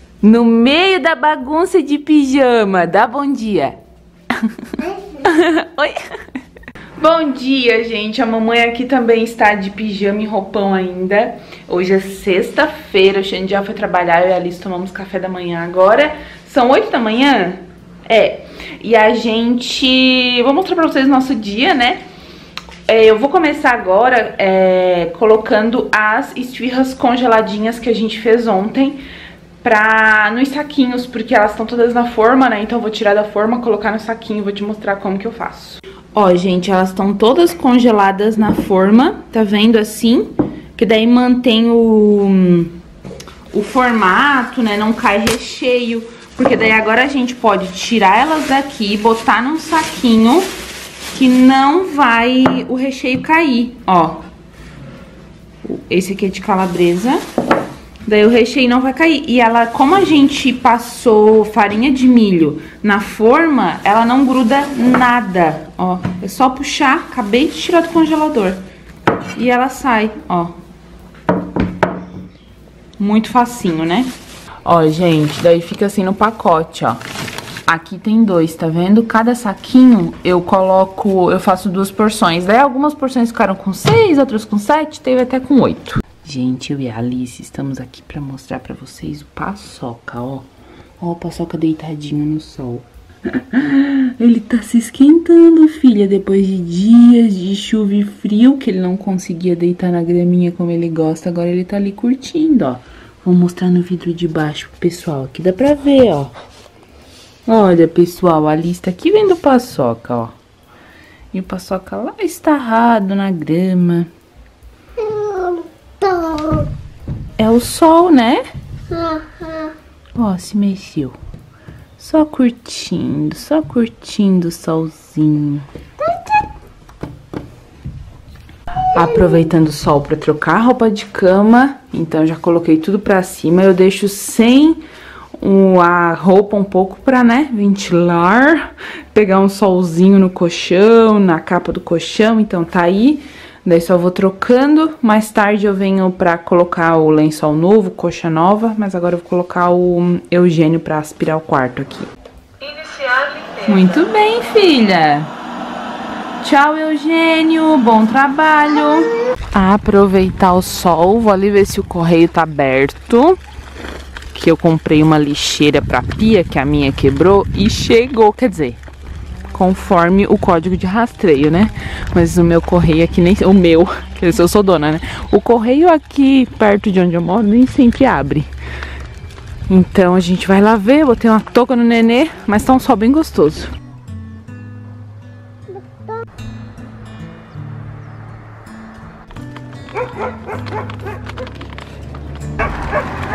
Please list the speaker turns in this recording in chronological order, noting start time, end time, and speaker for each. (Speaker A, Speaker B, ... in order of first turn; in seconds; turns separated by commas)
Speaker A: 0.2-3.8, Speaker A: 4.3-6.1, Speaker A: 7.0-22.0, Speaker A: 22.9-29.0, Speaker A: 29.6-42.8, Speaker A: 43.5-50.5, Speaker A: 51.1-54.2, Speaker A: 55.6-57.2, Speaker A: 58.0-68.6, Speaker A: 69.3-70.5, Speaker A: 73.0-74.1, Speaker A: 74.6-77.0, Speaker A: 77.7-90.5, Speaker A: 91.0-106.3, Speaker A: 107.5-110.3, Speaker A: 111.3-114.1, Speaker A: 117.4-118.4, Speaker A: 120.1-121.2, Speaker A: 122.0-125.7, Speaker A: 128.9-134.8, Speaker A: 135.4-152.1, Speaker A: 152.7-155.3, Speaker A: 156.4-163.4, Speaker A: 164.3-168.8, Speaker A: 169.5-178.5, Speaker A: 179.7-183.7